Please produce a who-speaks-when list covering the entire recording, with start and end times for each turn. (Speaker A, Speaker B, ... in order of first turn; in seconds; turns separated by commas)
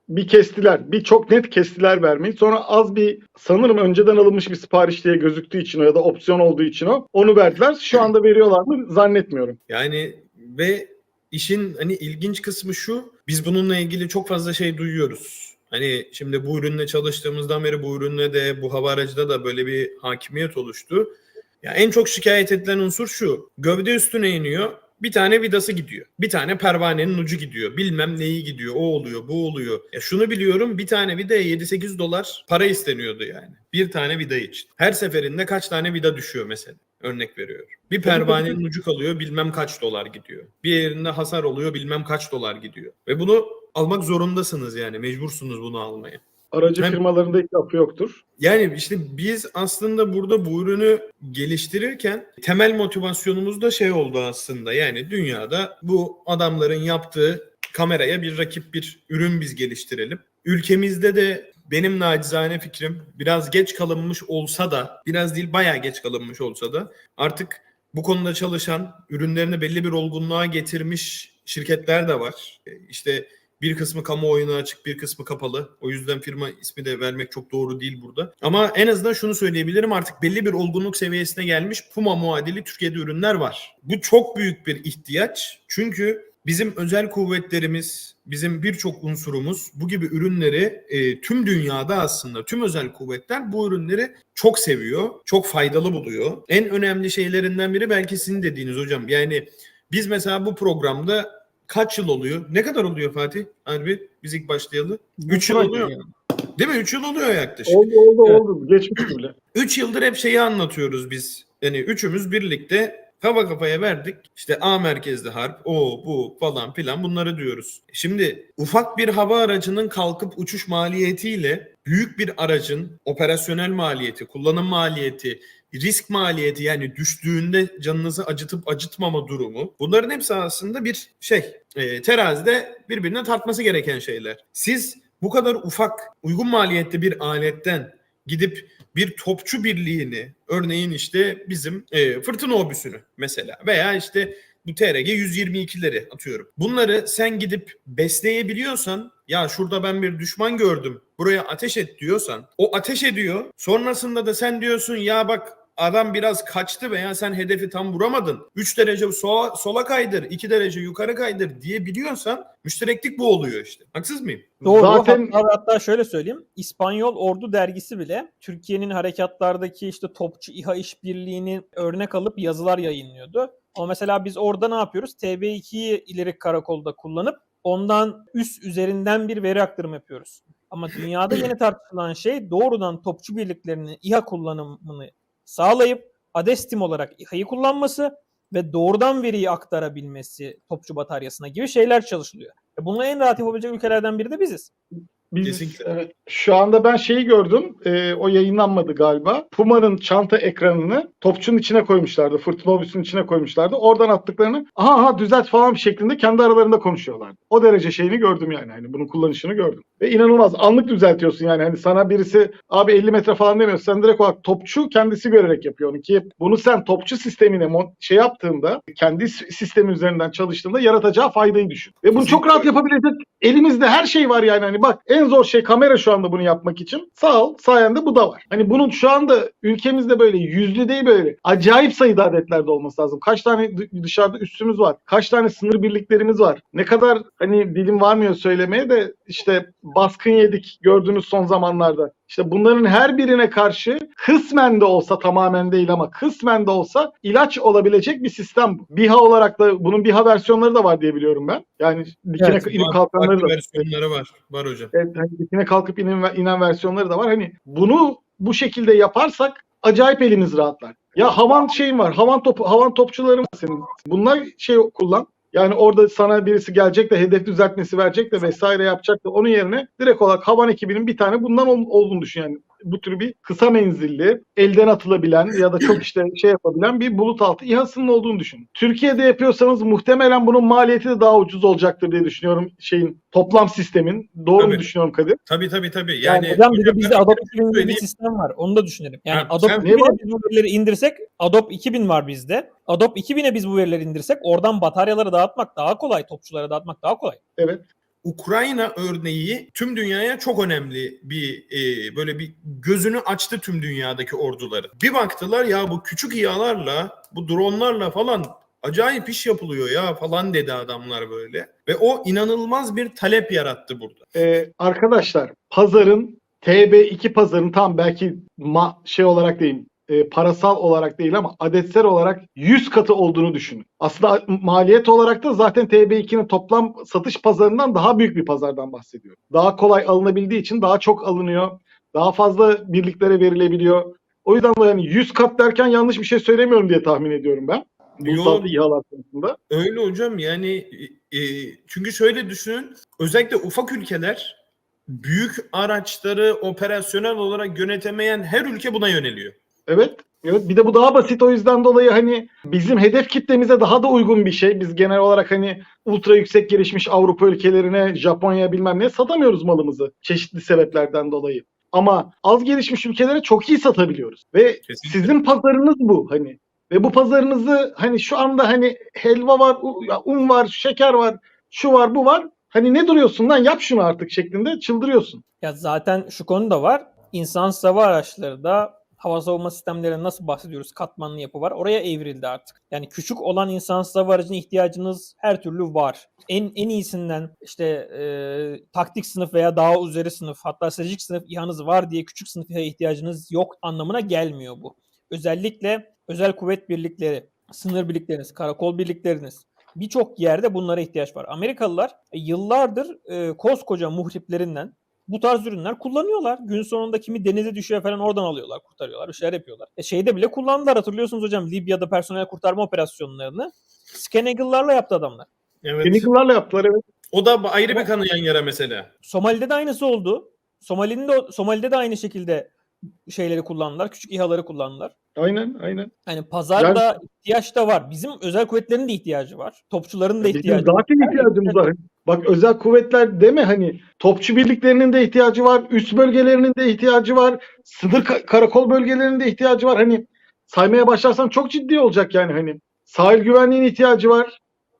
Speaker A: 0.1-9.6, Speaker B: 9.7-46.2, Speaker A: 38.0-38.6, Speaker A: 46.5-48.2, Speaker B: 46.8-47.0, Speaker B: 48.4-108.4, Speaker A: 105.2-106.0, Speaker A: 107.7-109.3, Speaker B: 109.0-164.6, Speaker A: 164.6-165.3, Speaker C: 164.6-194.7, Speaker A: 195.3-253.8, Speaker B: 195.4-195.8, Speaker B: 222.1-222.7, Speaker B: 252.4-254.9, Speaker A: 254.9-285.4, Speaker B: 284.6-284.9, Speaker B: 285.4-288.0, Speaker A: 286.2-286.6, Speaker C: 286.5-297.4, Speaker B: 289.3-289.9, Speaker A: 289.8-290.2, Speaker A: 297.6-297.8, Speaker B: 298.2-314.2, Speaker A: 314.3-339.6, Speaker B: 338.2-338.7, Speaker B: 339.7-349.5, Speaker A: 349.9-375.4, Speaker B: 364.8-365.3, Speaker C: 375.6-415.5, Speaker B: 415.8-416.3, Speaker A: 416.0-417.0, Speaker B: 417.3-419.1, Speaker C: 419.2-422.7, Speaker C: 423.2-425.1, Speaker A: 425.4-426.1, Speaker C: 426.2-431.8, Speaker A: 426.8-427.1, Speaker A: 430.4-444.6